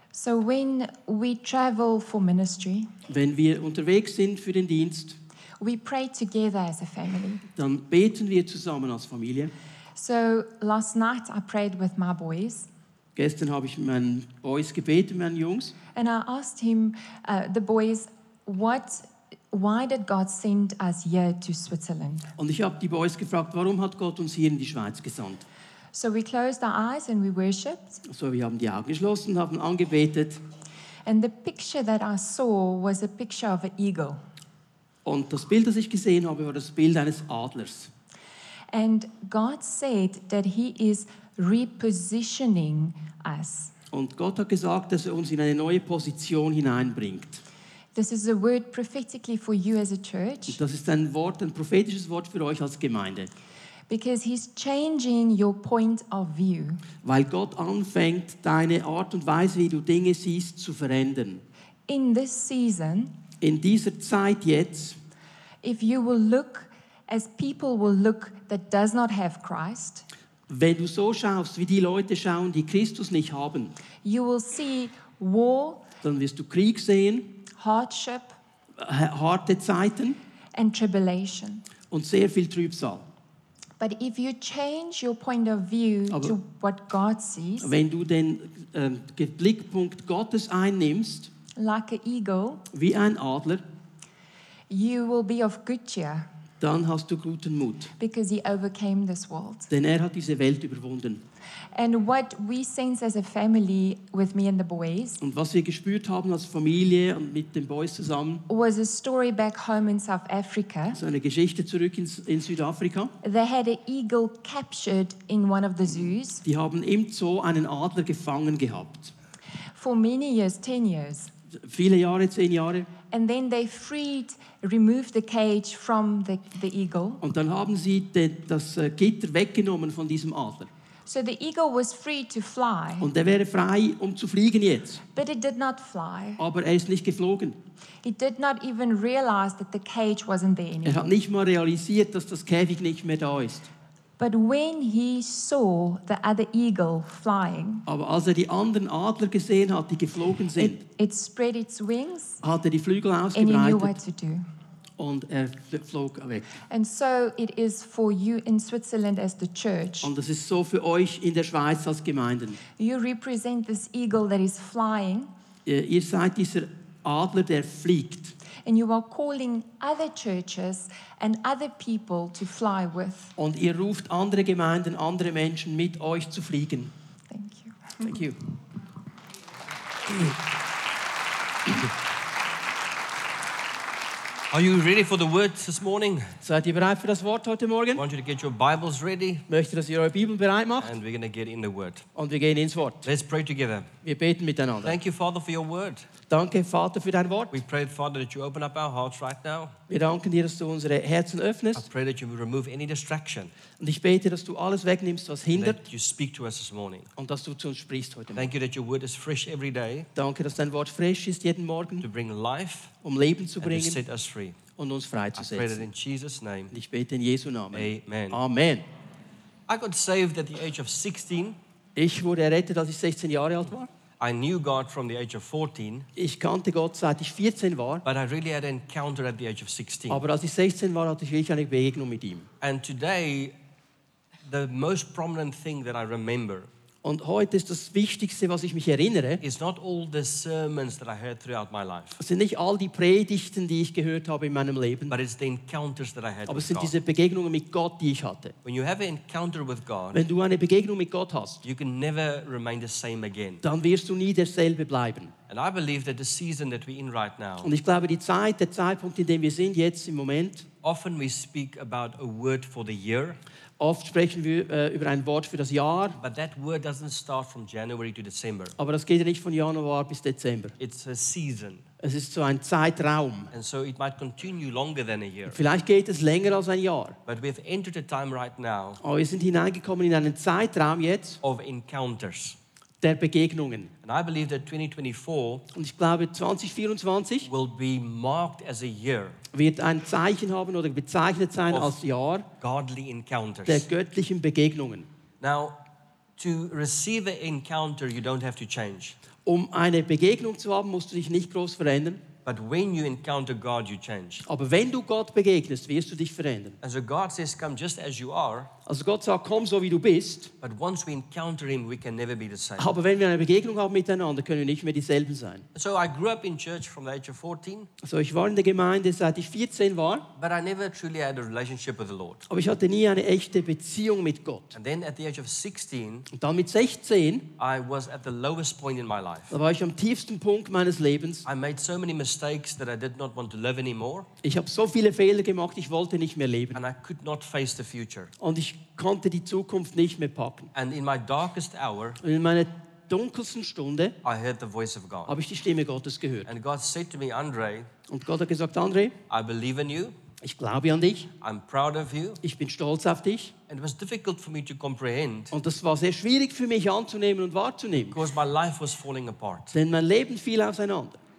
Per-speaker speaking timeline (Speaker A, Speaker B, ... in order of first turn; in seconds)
Speaker A: 0.1-2.9, 5.6-7.5, 10.0-12.7, 15.9-22.3, 25.9-28.0, 31.1-34.2, 38.7-43.7, 48.0-50.6, 53.9-56.8, 61.9-63.1, 65.6-70.1, 74.0-75.8, 77.6-78.3, 80.6-81.7, 83.8-87.7, 91.6-92.7, 94.7-96.3, 98.0-99.7, 101.7-105.2, 108.5-111.0, 113.2-116.4, 119.8-121.3, 123.1-127.2, 131.1-133.1, 135.2-136.4, 138.0-141.1, 144.2-147.8, 150.6-152.4, 153.3-154.4, 156.7-160.1, 162.8-165.3, 168.6-173.3, 177.3-178.0
Speaker B: 3.1-5.2, 7.5-9.5, 13.2-15.8, 22.4-25.4, 28.1-30.4, 35.1-37.9, 43.9-47.4, 50.5-53.3, 57.0-61.4, 63.4-65.0, 70.5-73.7, 76.0-77.3, 78.8-80.2, 81.9-83.1, 86.1-86.4, 87.6-91.3, 92.7-93.6, 96.6-97.9, 99.7-101.2, 105.2-108.4, 110.9-113.1, 116.4-119.1, 121.5-122.9, 127.2-130.7, 133.0-135.0, 136.4-137.6, 140.8-143.7, 147.9-150.8, 152.4-153.9, 155.0-156.5, 160.0-162.6, 165.7-168.3, 173.4-176.9, 178.0-178.4, 186.4-188.0, 189.5-190.9, 192.2-193.1, 194.0-195.0, 196.3-197.6, 199.9-201.9, 203.8-205.8, 207.2-208.5, 210.2-212.1, 213.0-214.0, 214.8-215.8, 216.7-218.8, 222.0-223.9, 226.2-228.0, 230.1-232.5, 237.0-239.4, 242.2-245.2, 246.5-248.6, 250.1-251.6, 253.6-255.3, 257.6-260.7, 263.8-266.2, 268.8-270.8, 272.0-273.5, 275.5-277.2, 279.0-281.4, 283.0-283.9, 285.7-287.5, 289.5-292.5, 293.7-295.1, 299.4-302.2, 304.5-306.8, 308.9-310.5, 312.8-315.6, 318.0-320.3, 322.5-324.8, 326.3-327.5, 329.5-331.5, 334.4-336.8, 338.4-340.7, 342.2-344.1, 345.3-346.5, 348.1-349.2, 350.4-351.3, 352.4-353.5, 355.5-358.2, 359.7-361.2
Speaker C: 184.5-186.4, 188.0-189.5, 190.8-192.1, 193.1-193.9, 194.8-196.1, 197.5-199.8, 201.8-203.5, 205.5-207.1, 208.3-210.1, 212.0-212.9, 213.6-214.6, 215.3-216.7, 217.7-218.4, 219.7-221.6, 224.2-226.1, 228.1-230.2, 232.6-233.6, 234.5-236.7, 239.4-242.2, 245.1-246.9, 248.6-250.2, 251.6-253.6, 255.5-257.7, 260.8-263.4, 266.2-268.8, 270.8-271.9, 273.5-275.6, 277.3-279.0, 281.4-282.6, 284.0-285.6, 287.4-289.4, 291.7-292.0, 292.6-293.9, 295.4-295.8, 296.4-299.2, 302.5-304.5, 306.8-308.7, 310.6-312.9, 315.8-317.9, 320.4-322.5, 324.8-326.3, 327.6-329.5, 331.4-334.3, 336.8-338.3, 340.7-342.2, 344.2-345.4, 346.5-347.9, 349.3-350.2, 351.4-352.4, 353.7-355.5, 358.1-359.8